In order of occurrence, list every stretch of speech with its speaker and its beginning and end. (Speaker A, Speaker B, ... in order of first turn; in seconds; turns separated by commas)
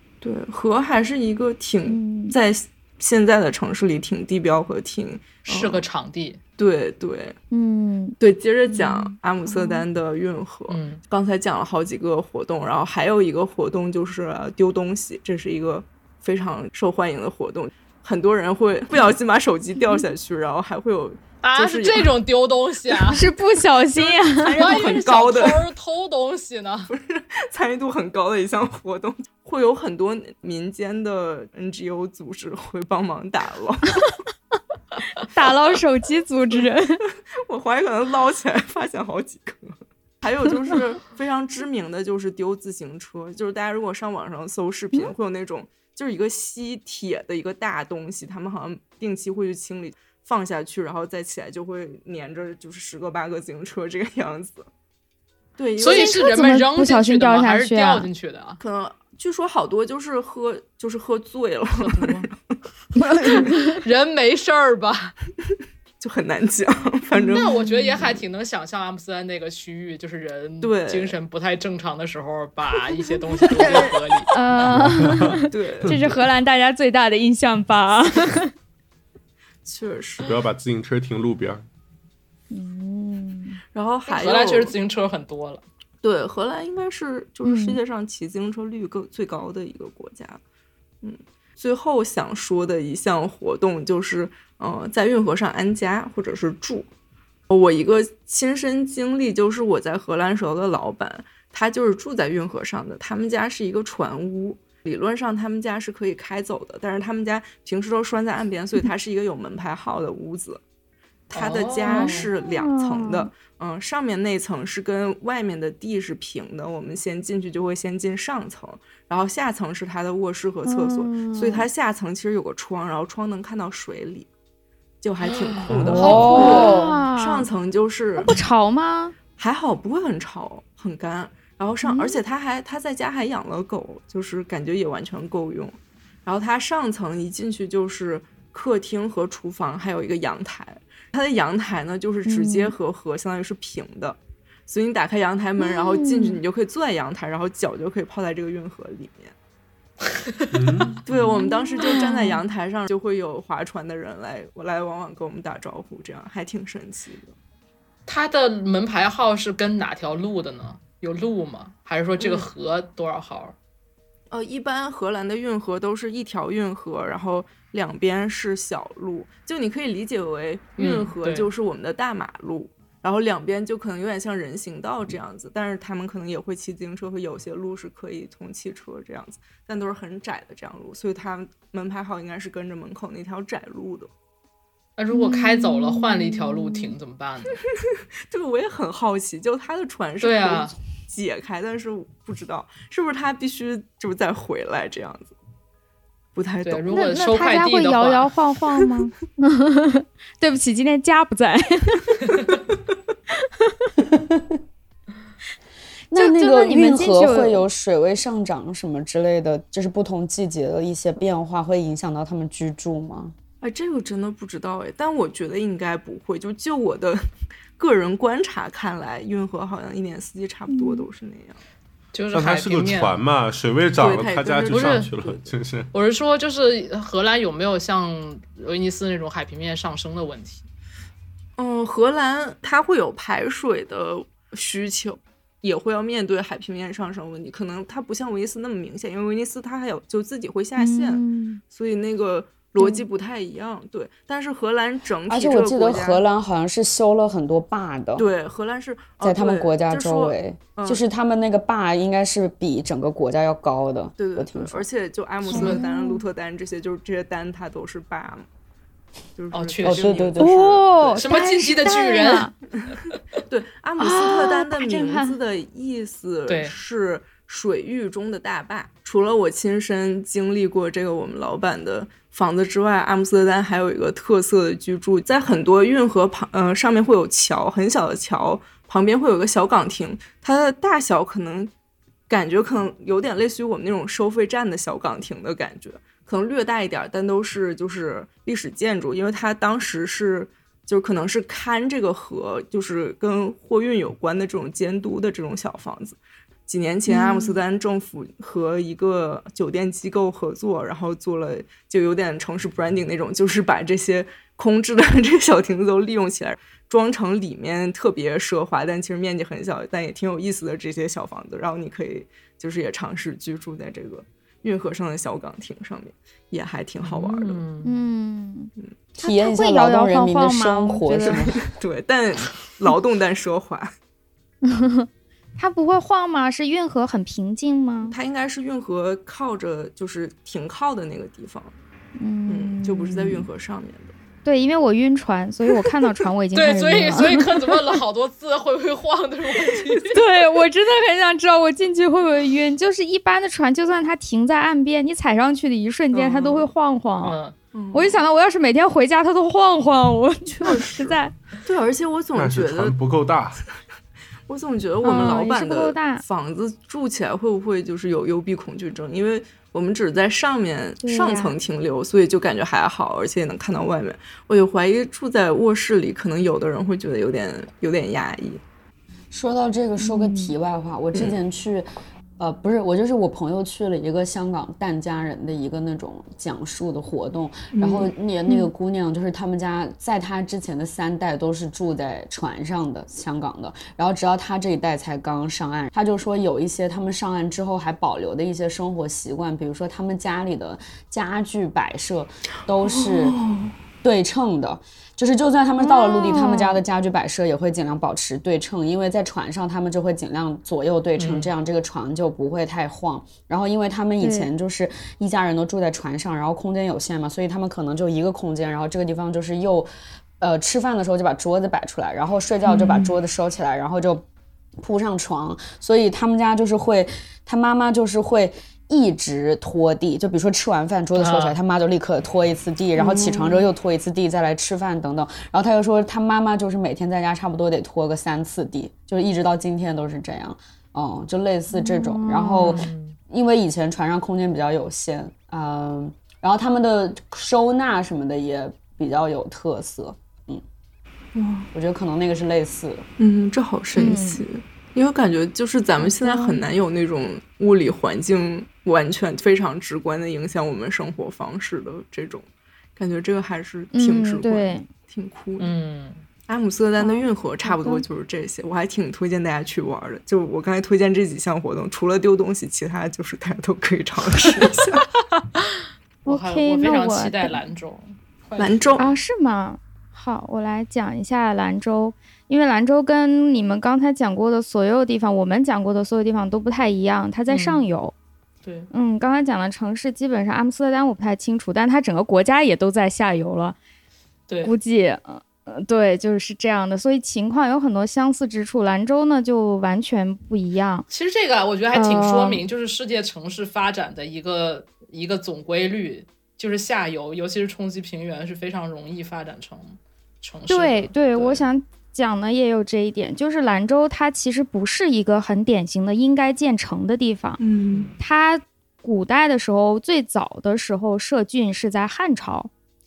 Speaker A: 0.2-5.8, Speaker B: 1.9-2.3, Speaker C: 5.5-6.4, Speaker A: 6.6-7.4, Speaker B: 7.5-8.2, Speaker A: 8.2-22.1, Speaker B: 8.7-9.8, Speaker C: 10.7-11.0, Speaker C: 21.4-23.2, Speaker B: 23.1-24.9, Speaker A: 24.0-25.6, Speaker C: 24.5-26.9, Speaker A: 26.9-34.0, Speaker B: 35.3-37.0, Speaker A: 37.3-54.7, Speaker A: 55.6-56.2, Speaker C: 55.8-58.6, Speaker B: 55.8-58.1, Speaker A: 58.6-62.3, Speaker C: 61.8-62.3, Speaker B: 63.0-63.8, Speaker C: 63.4-65.1, Speaker A: 66.0-67.5, Speaker B: 67.1-67.5, Speaker C: 67.3-74.3, Speaker A: 70.6-71.2, Speaker A: 73.5-73.9, Speaker B: 73.6-78.5, Speaker D: 74.8-76.1, Speaker A: 75.5-76.1, Speaker A: 79.7-80.3, Speaker D: 80.2-81.6, Speaker B: 82.5-83.6, Speaker A: 83.7-84.7, Speaker C: 84.1-85.6, Speaker A: 86.0-90.4, Speaker B: 87.4-87.8, Speaker A: 91.0-96.9, Speaker A: 97.5-110.6, Speaker A: 111.3-124.3, Speaker C: 111.3-112.3, Speaker B: 111.9-113.3, Speaker B: 120.7-121.7, Speaker A: 125.0-128.4, Speaker B: 125.5-127.5, Speaker D: 125.6-126.3, Speaker E: 125.8-127.0, Speaker B: 128.2-129.2, Speaker A: 129.4-149.3, Speaker B: 131.8-132.2, Speaker B: 142.2-142.7, Speaker B: 145.6-146.4, Speaker D: 150.5-151.3, Speaker A: 151.0-157.3, Speaker B: 151.3-152.4, Speaker C: 158.1-163.5, Speaker A: 162.2-162.4, Speaker A: 164.3-184.1, Speaker C: 170.8-171.5, Speaker C: 185.0-187.6, Speaker B: 185.1-186.9, Speaker A: 187.7-195.3, Speaker C: 190.2-190.7, Speaker A: 196.3-196.8, Speaker C: 196.6-198.3, Speaker B: 196.9-202.6, Speaker B: 203.6-203.9, Speaker E: 204.1-204.4, Speaker E: 206.1-213.3, Speaker B: 206.1-207.6, Speaker A: 213.6-217.2, Speaker A: 217.8-221.6, Speaker B: 220.7-221.1, Speaker C: 222.1-223.2, Speaker D: 222.3-225.9, Speaker A: 224.0-225.5, Speaker C: 224.7-225.1, Speaker C: 225.9-230.6, Speaker A: 231.6-246.2, Speaker B: 240.8-241.6, Speaker B: 242.8-243.0, Speaker E: 245.3-248.3, Speaker A: 248.2-251.0, Speaker E: 249.2-254.8, Speaker A: 254.2-258.5, Speaker B: 255.5-256.2, Speaker A: 259.4-261.3, Speaker C: 259.5-260.3, Speaker E: 259.8-260.8, Speaker B: 260.4-262.5, Speaker C: 261.2-262.5, Speaker A: 263.5-281.7, Speaker B: 264.0-265.4, Speaker C: 266.5-266.7, Speaker A: 282.3-317.6, Speaker B: 297.1-297.6, Speaker C: 317.0-317.9, Speaker B: 317.8-321.4, Speaker E: 319.2-321.6, Speaker A: 321.2-323.9, Speaker B: 324.6-328.1, Speaker A: 328.0-331.7, Speaker B: 332.2-333.5, Speaker A: 332.5-334.1, Speaker B: 334.4-337.5, Speaker C: 336.5-340.2, Speaker B: 340.1-347.4, Speaker A: 346.1-346.7, Speaker C: 347.2-347.5, Speaker A: 347.7-348.2, Speaker B: 347.9-351.3, Speaker A: 350.6-352.9, Speaker D: 352.3-353.6, Speaker A: 354.5-368.6, Speaker B: 355.0-356.2, Speaker B: 361.0-361.5, Speaker E: 369.3-371.9, Speaker E: 372.4-393.4, Speaker A: 377.7-378.1, Speaker A: 392.8-393.7, Speaker E: 394.0-409.9, Speaker B: 395.8-396.8, Speaker C: 401.2-401.5, Speaker B: 404.2-404.5, Speaker E: 410.4-414.2, Speaker A: 412.6-413.1, Speaker E: 414.8-440.6, Speaker C: 421.1-421.6, Speaker A: 423.0-423.6, Speaker B: 431.7-432.8, Speaker C: 432.7-433.2, Speaker A: 441.3-441.7, Speaker E: 441.7-443.0, Speaker A: 443.2-455.7, Speaker B: 443.9-444.4, Speaker B: 446.0-446.6, Speaker B: 453.9-454.8, Speaker C: 455.6-456.2, Speaker A: 456.5-465.1, Speaker B: 457.0-458.0, Speaker B: 466.2-467.6, Speaker C: 466.2-469.0, Speaker A: 468.6-469.1, Speaker B: 469.0-478.1, Speaker C: 477.5-477.8, Speaker B: 478.9-483.8, Speaker B: 484.6-491.1, Speaker C: 491.1-501.7, Speaker B: 491.9-492.6, Speaker B: 500.7-507.6, Speaker A: 507.6-508.1, Speaker B: 508.2-512.7